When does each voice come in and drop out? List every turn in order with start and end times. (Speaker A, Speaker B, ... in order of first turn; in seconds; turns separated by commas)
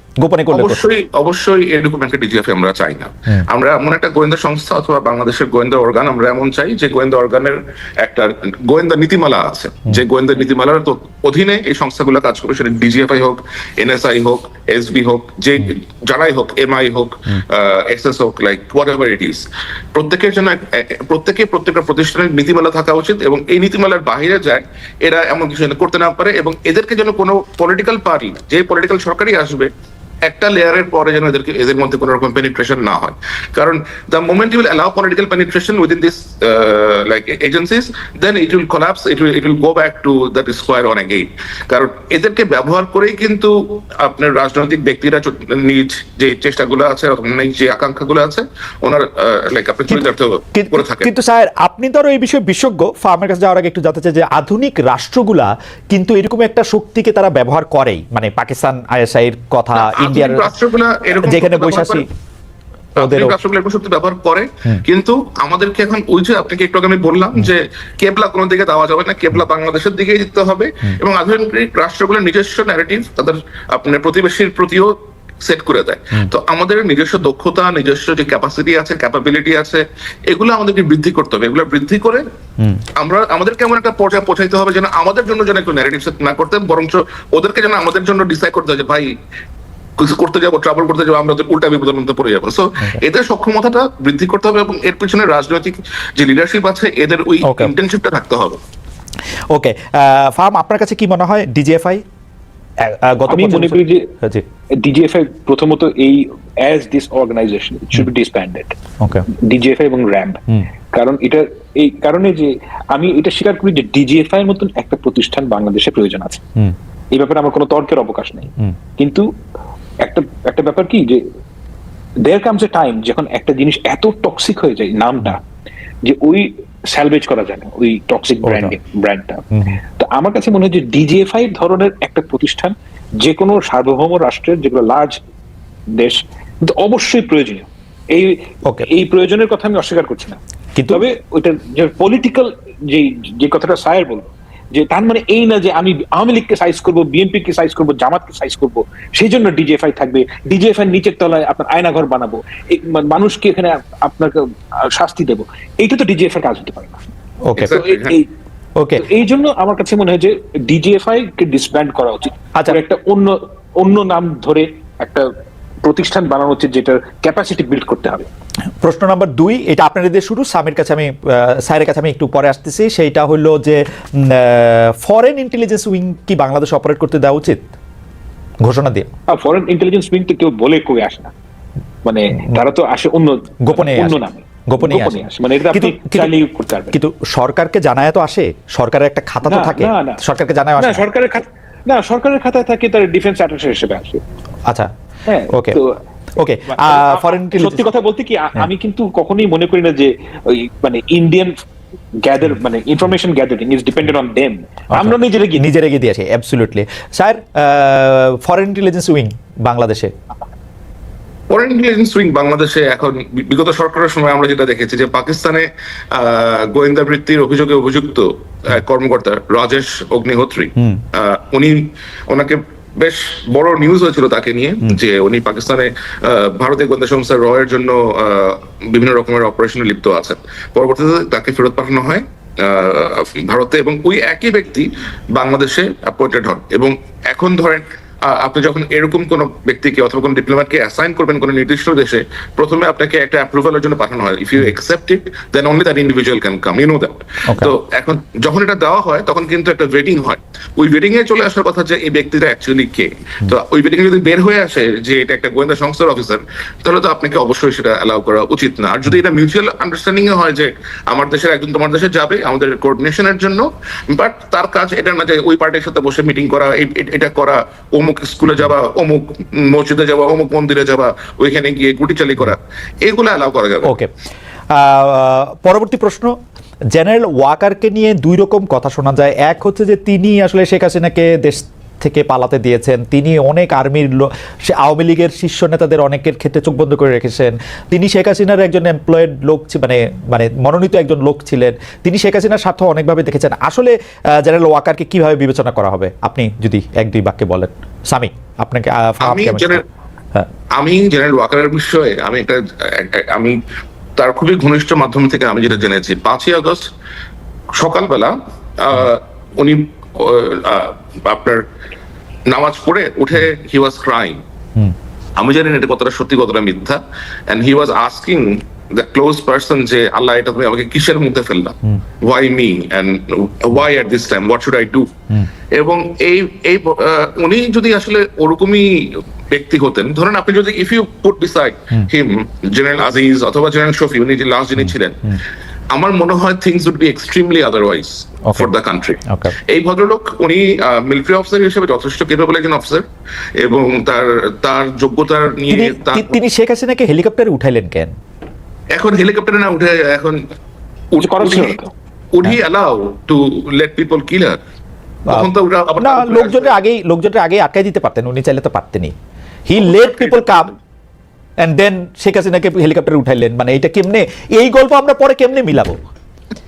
Speaker A: 0.2-0.8, Speaker B: 0.5-29.7, Speaker B: 30.2-51.1, Speaker A: 50.5-60.5, Speaker B: 59.7-62.0, Speaker A: 61.1-62.0, Speaker A: 63.0-63.3, Speaker B: 63.0-82.2, Speaker B: 83.0-89.1, Speaker B: 90.0-98.6, Speaker A: 97.4-97.7, Speaker A: 99.5-102.0, Speaker A: 102.8-104.4, Speaker C: 103.3-104.1, Speaker C: 104.8-108.7, Speaker A: 109.0-109.2, Speaker C: 109.4-116.4, Speaker C: 117.1-119.2, Speaker C: 120.0-121.2, Speaker C: 122.2-125.4, Speaker C: 126.0-135.2, Speaker A: 128.4-128.7, Speaker A: 129.5-129.8, Speaker C: 135.9-140.4, Speaker A: 140.8-141.0, Speaker C: 140.9-154.4, Speaker C: 154.9-157.0, Speaker A: 157.4-157.8, Speaker B: 157.6-158.2, Speaker C: 157.6-158.3, Speaker A: 158.8-159.0, Speaker C: 159.0-165.3, Speaker C: 165.8-168.3, Speaker A: 168.8-177.6, Speaker A: 178.6-179.1, Speaker C: 179.3-181.3, Speaker C: 182.0-186.9, Speaker A: 183.7-184.2, Speaker A: 184.7-186.3, Speaker A: 186.9-191.1, Speaker C: 189.4-190.2, Speaker C: 190.8-194.2, Speaker C: 195.3-195.9, Speaker A: 195.5-195.8, Speaker A: 196.4-197.8, Speaker C: 196.7-201.6, Speaker C: 202.2-205.7, Speaker A: 204.9-210.1, Speaker B: 211.5-273.9, Speaker A: 220.8-221.0, Speaker A: 274.7-276.4, Speaker A: 276.9-299.8, Speaker B: 299.2-299.8, Speaker B: 300.8-303.6, Speaker B: 304.2-306.8, Speaker B: 307.8-311.6, Speaker B: 312.5-314.4, Speaker B: 315.4-325.1, Speaker B: 325.7-335.4, Speaker A: 334.8-335.4, Speaker B: 335.9-343.0, Speaker A: 339.3-339.5, Speaker B: 343.6-346.4, Speaker A: 345.7-348.1, Speaker B: 348.9-350.4, Speaker B: 351.1-351.8, Speaker C: 351.2-351.9, Speaker B: 352.3-354.6, Speaker B: 355.3-356.8, Speaker A: 355.3-359.1, Speaker A: 359.7-360.7, Speaker B: 359.8-360.7, Speaker A: 361.6-366.0